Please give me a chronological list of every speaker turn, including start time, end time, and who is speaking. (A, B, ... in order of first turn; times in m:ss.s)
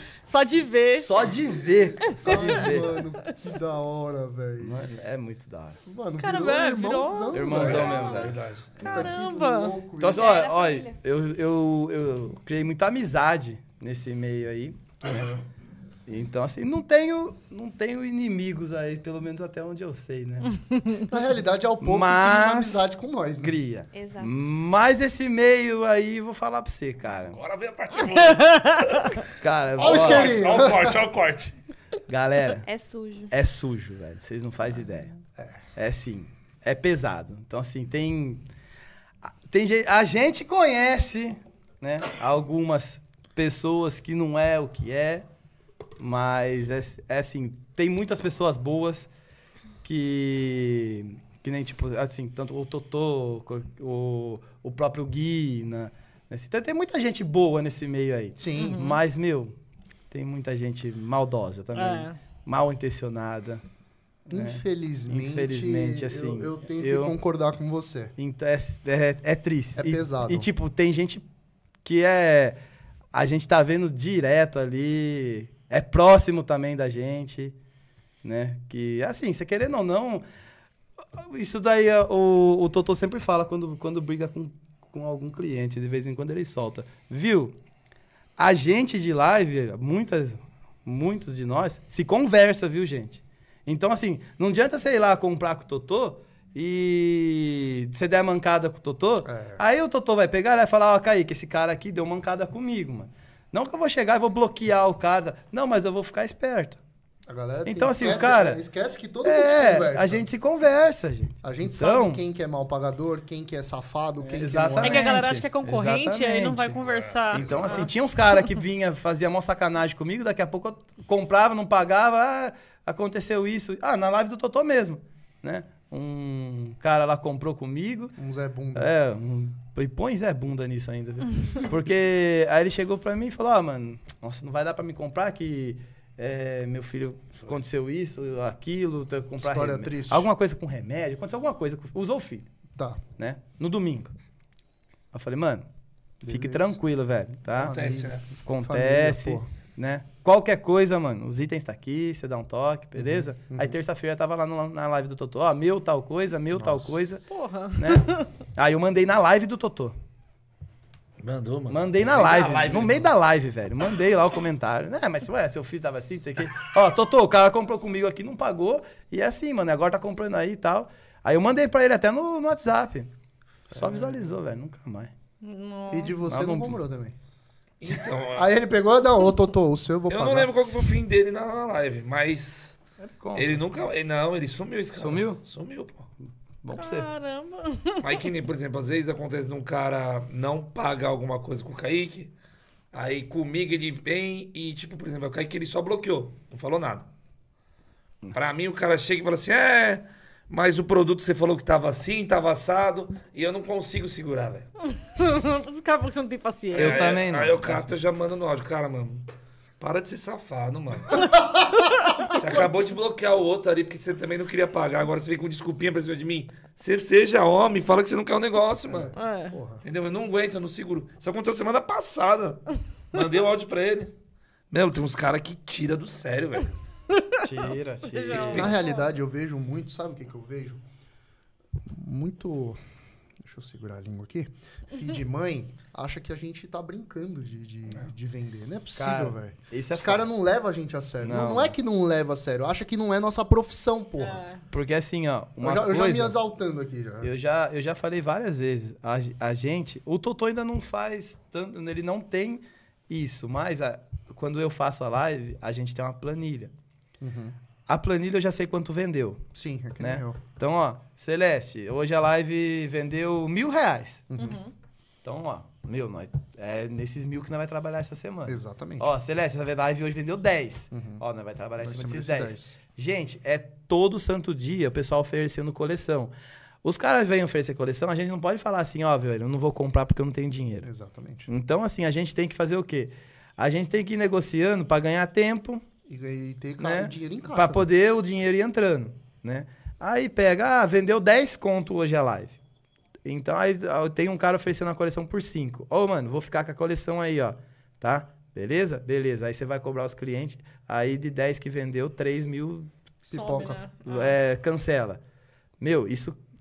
0:00.2-0:01.1 A
0:00.9-0:03.0 B
0:02.2-0:04.8 C
0:04.6-0:05.8 B
0:05.8-0:08.1 C
0:06.2-0:07.5 A
0:07.3-0:08.4 B
0:07.5-0:08.7 D
0:07.8-0:08.3 E
0:08.8-0:10.3 C
0:08.8-0:09.8 A
0:10.0-0:15.4 B
0:10.1-0:11.0 E
0:16.1-0:20.6 B
0:21.1-0:23.6 C
0:21.8-0:22.8 B
0:23.4-0:27.4 B
0:23.9-0:24.3 E
0:27.3-0:29.2 D
0:29.4-0:30.5 B
0:29.8-0:31.0 C
0:29.8-0:31.5 D
0:32.1-0:32.6 B
0:32.6-0:33.3 E
0:33.3-0:35.1 B
0:35.8-0:38.4 B
0:39.2-0:45.2 B
0:46.0-0:49.1 B
0:49.8-0:59.5 B
0:58.4-0:58.8 C
0:58.5-0:59.0 A
1:00.1-1:03.6 B
1:01.7-1:02.2 A
1:04.3-1:08.1 C
1:04.3-1:07.1 B
1:08.2-1:11.2 B
1:09.8-1:10.5 C
1:11.8-1:12.6 B
1:13.1-1:17.5 B
1:18.2-1:20.2 B
1:21.2-1:27.5 B
1:28.4-1:46.8 B
1:39.2-1:39.6 C
1:47.3-1:50.2 C
1:47.6-1:48.6 B
1:49.2-1:52.2 B
1:51.4-1:55.2 C
1:54.2-1:56.8 B
1:54.8-1:57.9 A
1:56.8-1:57.9 D
1:57.3-2:08.2 B
2:08.2-2:08.9 C
2:08.7-2:22.5 B
2:19.4-2:20.3 C
2:22.8-2:23.0 C
2:23.2-2:24.1 B
2:25.1-2:25.6 B
2:26.2-2:26.8 C
2:26.2-2:27.8 B
2:27.5-2:29.5 C
2:27.5-2:28.2 D
2:28.4-2:37.2 B
2:33.0-2:33.7 C
2:36.6-2:37.0 C
2:37.3-2:38.3 A
2:37.7-2:39.9 B
2:41.2-2:43.1 D
2:41.7-2:53.1 B
2:53.7-2:55.1 B
2:53.7-2:54.1 C
2:55.4-2:56.2 A
2:55.9-2:57.2 C
2:56.3-2:56.8 B
2:57.8-2:58.5 D
2:58.3-3:00.5 C
3:00.1-3:02.8 D
3:03.0-3:03.6 B
3:03.3-3:06.1 D
3:04.9-3:05.4 B
3:06.6-3:07.1 B
3:06.7-3:08.1 A
3:08.0-3:12.3 D
3:12.9-3:17.1 D
3:18.3-3:24.7 D
3:25.0-3:27.1 A
3:26.7-3:27.9 B
3:26.7-3:29.2 D
3:29.8-3:31.5 D
3:32.2-3:39.1 D
3:38.9-3:39.8 C
3:39.1-3:39.6 A
3:39.8-3:42.6 D
3:43.1-3:44.1 D
3:44.7-3:46.7 D
3:47.2-3:47.4 A
3:47.4-3:48.7 B
3:48.1-3:49.1 A
3:48.3-3:50.8 C
3:48.4-3:48.7 D
3:51.9-3:52.8 C
3:53.4-4:04.4 C
3:59.0-4:00.3 B
4:01.2-4:01.7 B
4:04.2-4:04.6 A
4:04.7-4:06.4 B
4:05.6-4:07.3 C
4:07.2-4:16.7 B
4:17.2-4:17.6 C
4:17.9-4:19.4 B
4:19.5-4:20.4 C
4:20.0-4:24.3 B
4:24.3-4:24.6 C
4:24.4-4:24.7 A
4:25.2-4:36.3 B
4:28.4-4:29.1 C
4:30.9-4:31.2 C
4:31.8-4:32.8 C
4:36.8-4:40.9 B
4:40.8-4:41.5 C
4:41.5-4:45.8 B
4:46.1-4:47.8 C
4:46.8-4:52.6 B
4:53.2-5:02.9 B
5:03.3-5:03.8 C
5:03.3-5:04.3 A
5:04.0-5:05.2 B
5:05.8-5:06.4 B